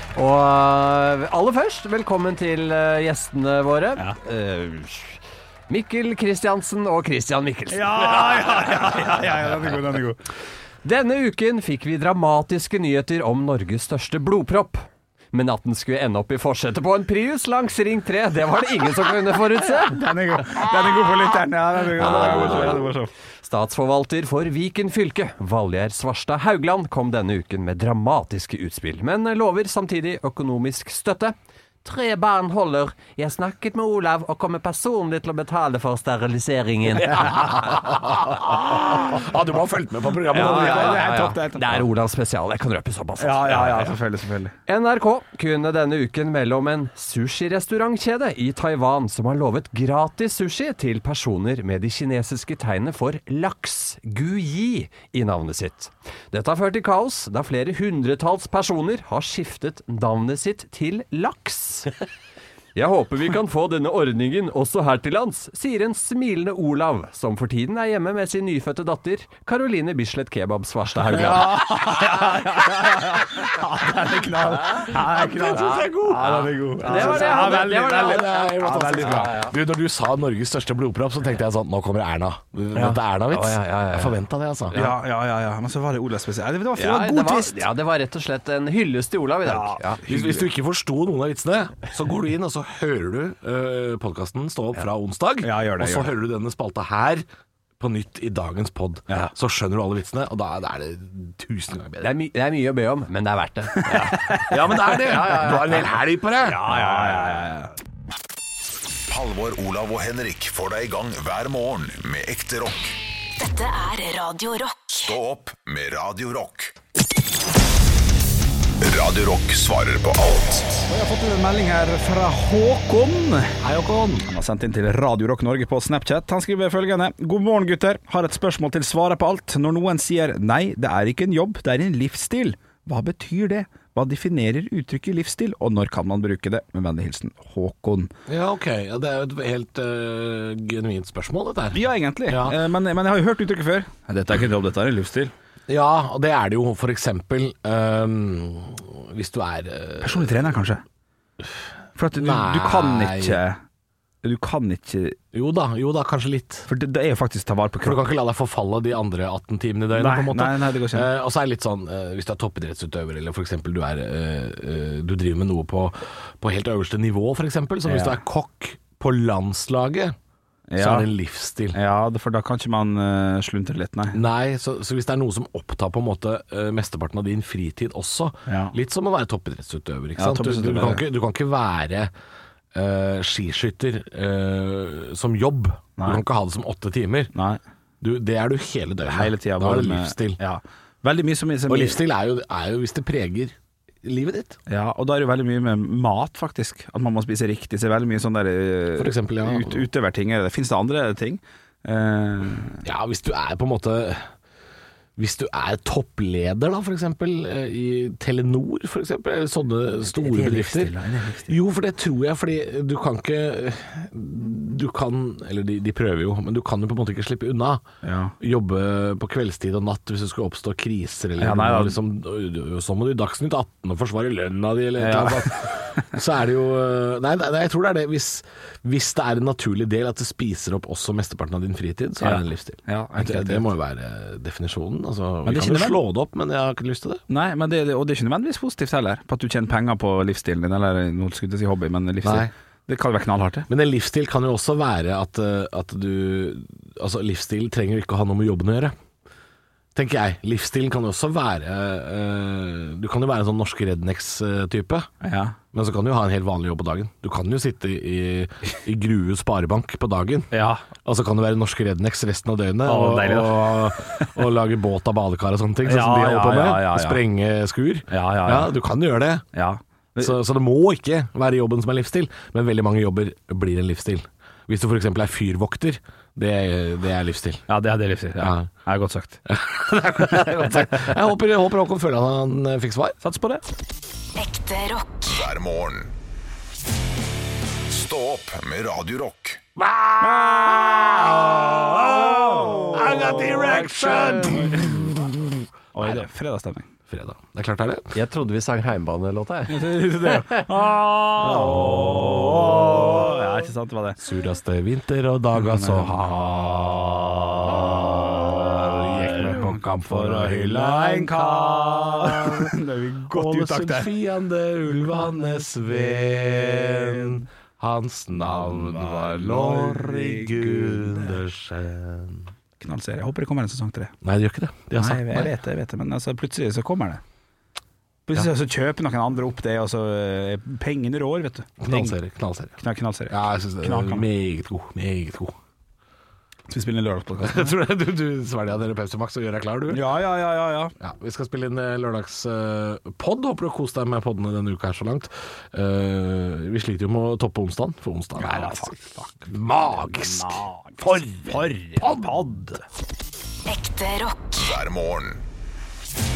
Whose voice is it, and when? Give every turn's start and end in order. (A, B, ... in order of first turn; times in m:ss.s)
0:00.2-0:09.6 A
0:07.7-0:10.2 B
0:10.8-0:20.0 A
0:19.8-0:23.1 B
0:21.9-0:38.0 A
0:22.3-0:22.7 C
0:37.0-0:41.1 C
0:40.3-0:44.0 A
0:40.3-0:41.8 B
0:43.2-0:44.5 B
0:44.7-1:02.0 A
1:02.8-1:12.3 A
1:11.1-1:19.5 B
1:14.8-1:24.8 C
1:15.6-1:19.5 A
1:23.3-1:24.2 A
1:24.7-1:25.0 A
1:24.7-1:27.7 B
1:26.8-1:30.0 A
1:29.4-1:30.5 B
1:30.1-1:37.2 C
1:35.4-1:36.1 B
1:37.8-1:42.2 C
1:39.1-1:39.3 B
1:42.0-1:46.0 A
1:43.8-1:44.5 B
1:44.4-1:46.6 C
1:46.4-1:47.8 B
1:49.1-1:53.0 D
1:53.4-1:54.9 E
1:54.9-1:56.7 D
1:58.8-2:00.8 D
2:00.9-2:03.6 B
2:03.6-2:04.3 C
2:04.3-2:18.1 B
2:18.3-2:22.6 C
2:21.7-2:25.3 B
2:25.7-2:30.4 C
2:30.0-2:30.8 B
2:32.0-2:33.6 B
2:32.2-2:33.4 C
2:34.2-2:35.2 B
2:35.3-2:36.7 C
2:36.7-2:38.0 B
2:37.8-2:50.2 C
2:39.9-2:41.1 B
2:47.9-2:48.2 B
2:50.7-2:51.1 B
2:50.8-2:51.8 C
2:51.7-2:54.2 B
2:54.1-3:02.1 C
2:58.5-2:58.8 B
3:00.2-3:01.0 B
3:02.7-3:07.3 C
3:06.0-3:06.2 B
3:07.3-3:07.6 B
3:08.0-3:10.4 C
3:09.1-3:12.0 B
3:11.7-3:14.6 C
3:14.7-3:22.8 B
3:19.0-3:19.9 C
3:22.8-3:24.3 C
3:25.2-3:37.8 C
3:30.2-3:31.6 B
3:38.0-3:38.4 B
3:38.4-3:57.2 C
3:41.4-3:42.0 B
3:45.0-3:46.2 B
3:52.2-3:53.7 B
3:55.4-3:56.0 B
3:57.3-4:03.7 B
4:02.2-4:02.5 C
4:03.7-4:08.9 C
4:10.0-4:15.1 C
4:15.2-4:15.6 B
4:15.7-4:29.4 C
4:20.5-4:20.9 B
4:22.8-4:24.4 B
4:25.8-4:27.2 B
4:28.1-4:28.8 B
4:29.5-4:30.4 B
4:30.2-4:37.7 C
4:37.7-4:39.4 B
4:38.4-4:38.7 C
4:39.5-4:43.2 C
4:40.2-4:41.1 B
4:43.2-4:43.6 B
4:44.4-4:45.3 E
4:45.3-4:46.1 D
4:47.9-4:49.6 D
4:49.8-4:56.2 C
4:50.2-4:55.1 B
4:55.9-4:56.9 B
4:57.1-4:58.2 C
4:58.1-5:00.6 A
4:59.7-5:04.2 B
5:01.4-5:03.3 C
5:04.2-5:12.7 C
5:05.6-5:06.2 B
5:08.6-5:14.1 B
5:13.3-5:22.5 C
5:18.4-5:21.4 B
5:22.8-5:24.1 B
5:24.2-5:25.5 C
5:25.0-5:27.2 B
5:28.3-5:32.2 B
5:31.8-5:32.8 C
5:32.8-5:34.3 B
5:33.3-5:35.6 C
5:36.7-5:37.8 B
5:37.4-5:40.0 C
5:39.9-5:40.9 B
5:41.0-5:49.0 C
5:48.4-5:52.8 B
5:49.5-5:52.5 C
5:53.7-5:54.6 E
5:54.6-5:55.4 D